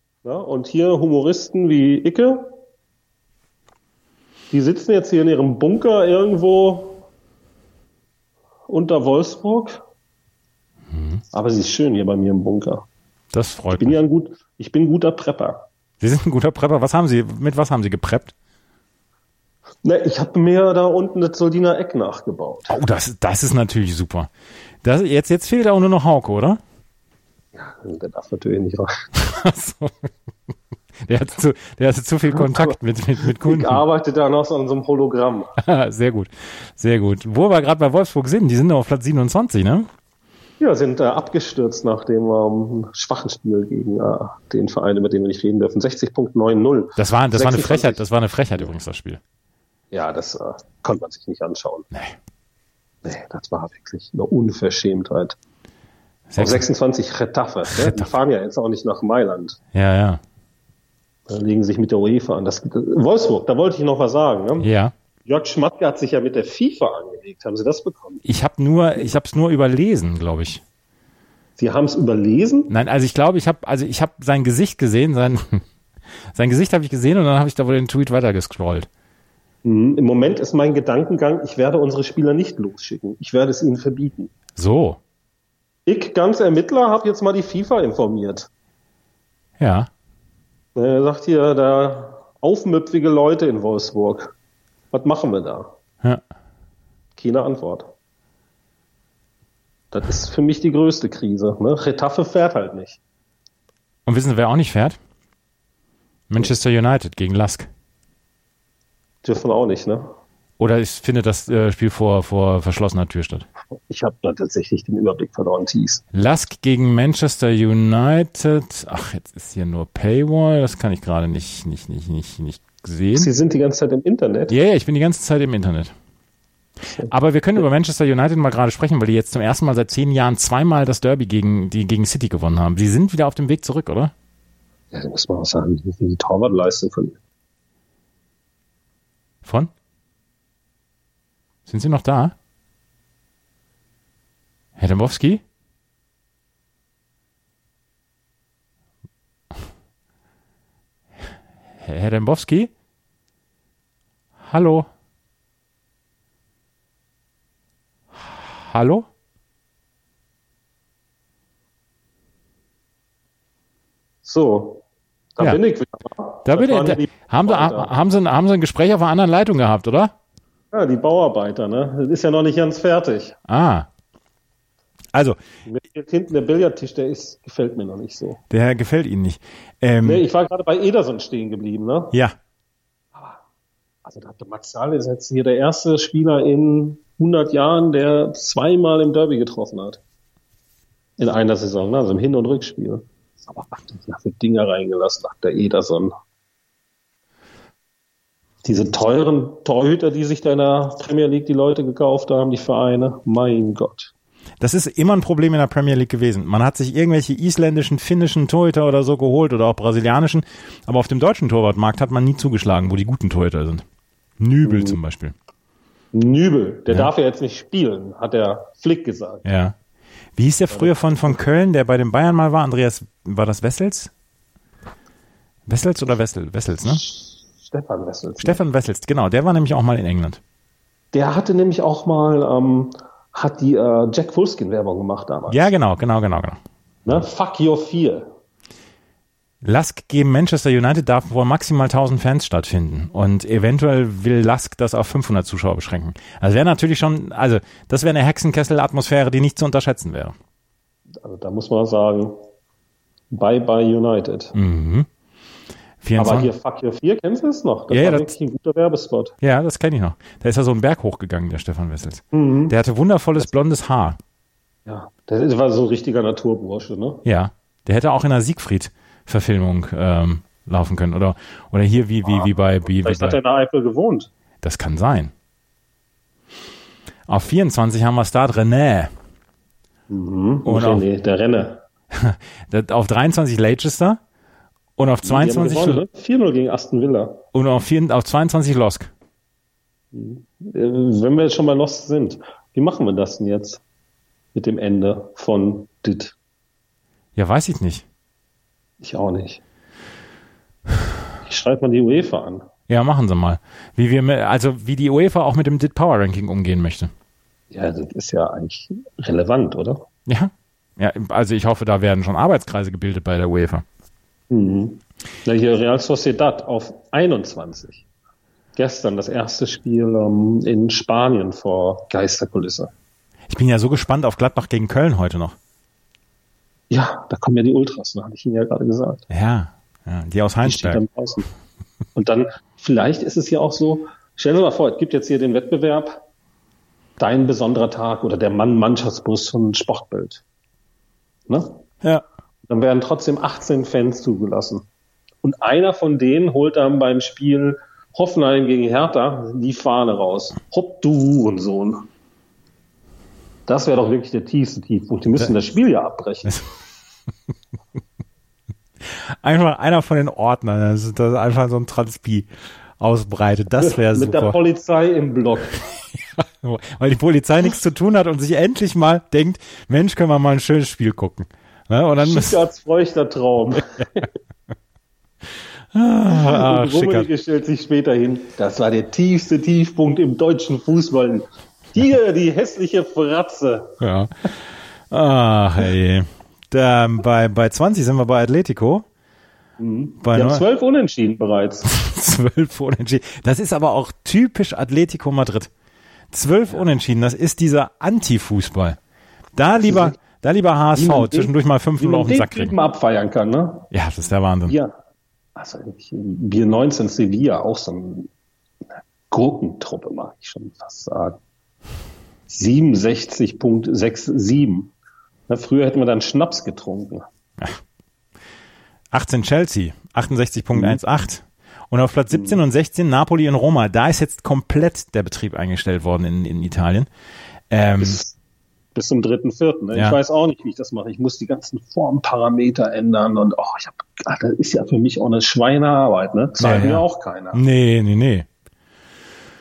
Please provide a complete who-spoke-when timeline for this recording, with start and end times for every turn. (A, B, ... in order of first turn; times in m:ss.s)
0:00.2-0:02.6 A
0:04.5-0:07.0 A
0:08.7-0:09.8 A
0:10.9-0:11.2 B
0:11.3-0:12.8 A
0:13.3-0:14.0 B
0:13.7-0:15.6 A
0:16.0-0:18.3 B
0:19.8-0:22.8 A
0:22.7-0:24.3 B
0:24.8-0:26.6 B
0:27.5-0:28.9 A
0:29.2-0:30.1 B
0:31.0-0:33.8 B
0:32.3-0:35.5 A
0:35.6-0:39.9 B
0:40.6-0:48.0 A
0:47.0-0:49.2 B
0:49.9-0:51.9 A
0:53.0-0:55.4 A
0:56.3-0:56.6 B
0:56.4-0:59.6 A
0:57.7-0:58.1 B
0:59.7-1:00.2 B
1:01.3-1:04.7 A
1:04.6-1:04.9 B
1:05.2-1:08.2 A
1:08.2-1:10.6 B
1:11.6-1:12.7 A
1:12.7-1:15.6 B
1:16.3-1:18.9 B
1:19.6-1:24.3 A
1:24.6-1:25.0 B
1:25.9-1:28.5 A
1:29.6-1:29.9 B
1:30.8-1:34.3 A
1:34.9-1:35.7 A
1:37.2-1:37.9 A
1:39.9-1:43.0 A
1:44.0-1:45.0 B
1:46.3-1:47.7 B
1:49.2-1:50.1 A
1:50.6-1:53.4 B
1:53.7-1:56.0 A
1:56.1-2:03.3 B
2:03.1-2:04.5 A
2:04.5-2:05.9 B
2:06.9-2:07.6 A
2:07.1-2:14.1 B
2:14.9-2:17.2 A
2:19.4-2:19.7 B
2:21.7-2:22.3 B
2:24.8-2:25.4 B
2:31.8-2:32.7 B
2:34.4-2:34.9 B
2:38.2-2:39.0 B
2:44.2-2:44.8 A
2:45.4-2:47.9 A
2:46.4-2:50.1 B
2:50.7-2:53.4 A
2:53.5-2:53.9 B
2:55.7-2:58.4 A
2:58.5-3:00.2 B
3:00.0-3:02.1 A
3:03.1-3:03.4 A
3:04.0-3:10.0 A
3:11.2-3:16.1 A
3:18.6-3:24.1 A
3:24.6-3:33.8 B
3:34.4-3:35.3 B
3:34.6-3:35.0 A
3:36.1-3:39.4 A
3:39.4-3:39.7 B
3:40.4-3:44.1 B
3:40.7-3:41.4 A
3:45.7-3:47.0 B
3:47.6-3:48.6 A
3:48.4-3:50.4 B
3:51.1-3:55.7 A
3:55.5-3:56.6 B
3:57.0-3:58.3 A
3:59.6-4:10.3 B
4:11.2-4:12.4 A
4:13.3-4:14.5 A
4:14.5-4:15.1 B
4:16.0-4:16.5 B
4:16.2-4:19.3 A
4:17.9-4:18.3 B
4:19.4-4:24.2 B
4:22.3-4:22.8 A
4:24.8-4:27.2 A
4:27.2-4:33.4 B
4:32.2-4:34.3 A
4:34.6-4:35.3 B
4:37.3-4:39.1 B
4:40.1-4:41.8 A
4:40.6-4:41.0 B
4:42.1-4:44.2 B
4:45.0-4:46.0 B
4:45.2-4:47.4 A
4:47.5-4:49.1 B
4:50.1-4:53.8 A
4:54.5-4:56.3 A
4:57.4-4:58.0 B
4:59.0-4:59.6 A
5:01.4-5:02.7 A
5:02.9-5:07.1 B
5:07.7-5:10.0 A
5:10.3-5:13.8 B
5:14.5-5:18.0 A
5:18.8-5:22.9 A
5:23.5-5:25.6 B
5:26.9-5:29.2 A
5:29.3-5:31.0 B
5:30.6-5:31.5 A
5:32.2-5:36.2 A
5:37.2-5:40.4 A
5:41.5-5:41.8 A
5:42.7-5:44.8 A
5:45.4-5:52.1 A
5:53.7-5:56.5 A
5:59.4-6:02.5 B
6:03.0-6:04.6 B
6:03.8-6:05.8 A
6:06.4-6:12.6 B
6:12.2-6:14.3 A
6:15.9-6:17.3 B
6:16.3-6:24.0 A
6:24.0-6:24.6 B
6:25.1-6:29.0 B
6:29.8-6:31.9 A
6:30.2-6:30.6 B
6:31.9-6:35.7 B
6:36.3-6:39.0 B
6:39.6-6:42.7 B
6:39.8-6:40.2 A
6:40.9-6:43.9 A
6:43.9-6:44.8 B
6:44.7-6:44.9 A
6:45.6-6:48.3 A
6:49.3-6:51.4 A
6:52.5-6:54.9 A
6:55.5-6:57.2 A
6:59.1-7:07.1 B
7:00.7-7:01.0 A
7:02.3-7:02.6 A
7:07.7-7:08.2 B
7:08.0-7:08.3 A
7:08.9-7:17.6 A
7:16.6-7:18.4 B